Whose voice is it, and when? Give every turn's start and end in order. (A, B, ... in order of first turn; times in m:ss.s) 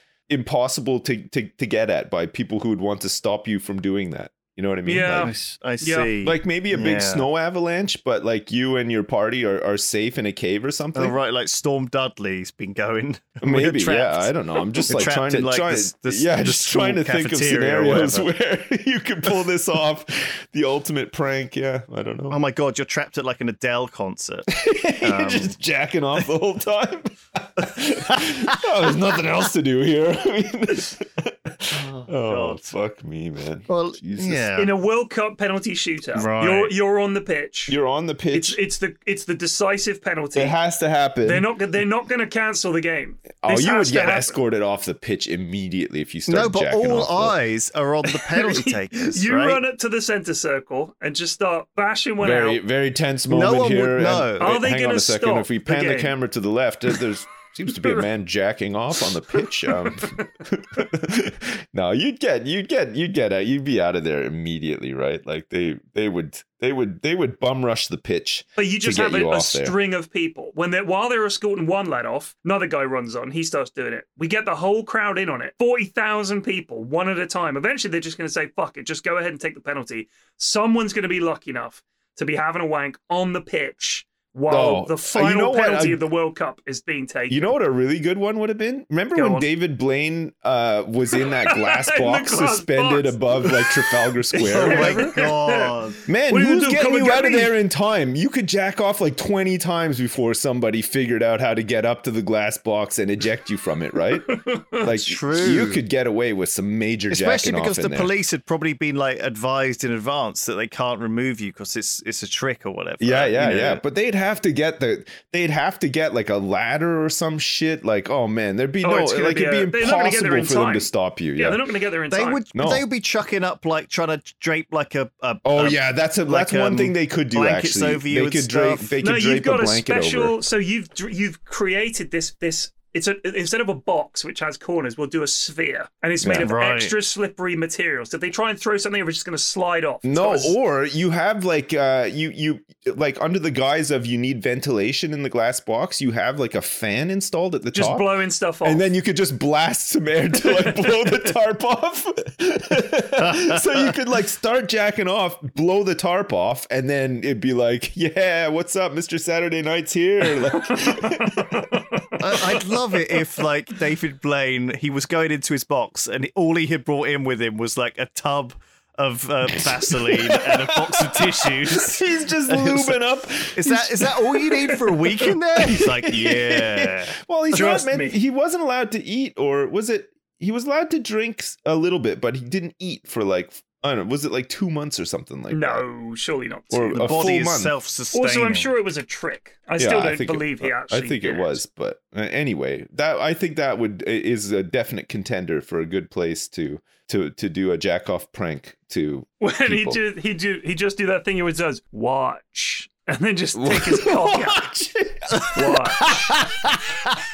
0:00.3-0:05.3 A
0:04.9-0:06.1 B
0:05.2-0:07.3 C
0:06.2-0:11.2 A
0:11.0-0:18.3 C
0:13.4-0:22.4 A
0:22.3-0:25.6 C
0:24.5-0:34.5 A
0:28.0-0:28.4 C
0:31.7-0:32.7 C
0:33.7-0:34.7 C
0:34.6-0:37.8 B
0:36.2-0:36.7 C
0:37.7-0:38.6 A
0:38.3-0:40.6 B
0:40.4-0:41.5 A
0:41.2-0:44.4 B
0:43.4-0:47.4 A
0:46.3-0:49.6 C
0:48.1-0:52.6 B
0:52.2-1:09.8 A
0:53.3-0:54.5 C
0:54.4-0:56.2 B
0:57.7-0:58.0 B
0:59.7-1:00.3 B
1:08.6-1:27.6 B
1:24.5-1:26.1 A
1:27.3-1:35.1 A
1:29.2-1:29.5 B
1:31.2-1:35.8 B
1:34.4-1:36.0 C
1:36.1-1:48.1 A
1:36.3-1:37.5 B
1:44.3-1:44.8 B
1:44.8-1:45.8 C
1:47.1-1:53.8 C
1:53.0-2:01.6 A
1:58.8-2:02.4 B
2:02.1-2:09.0 C
2:02.5-2:02.8 A
2:05.4-2:10.4 A
2:09.0-2:20.6 B
2:16.2-2:16.5 A
2:16.4-2:16.9 C
2:20.0-2:28.1 A
2:27.7-2:28.8 B
2:28.6-2:41.7 A
2:30.4-2:31.2 B
2:33.2-2:33.6 C
2:40.7-2:42.1 B
2:42.2-2:57.2 C
2:49.6-2:54.8 A
2:55.7-3:05.9 A
2:57.5-2:58.2 B
3:05.5-3:07.3 B
3:06.7-3:07.7 A
3:06.9-3:08.7 C
3:08.1-3:11.6 B
3:09.8-3:20.0 A
3:19.4-3:24.7 B
3:23.6-3:26.7 A
3:25.4-3:26.4 B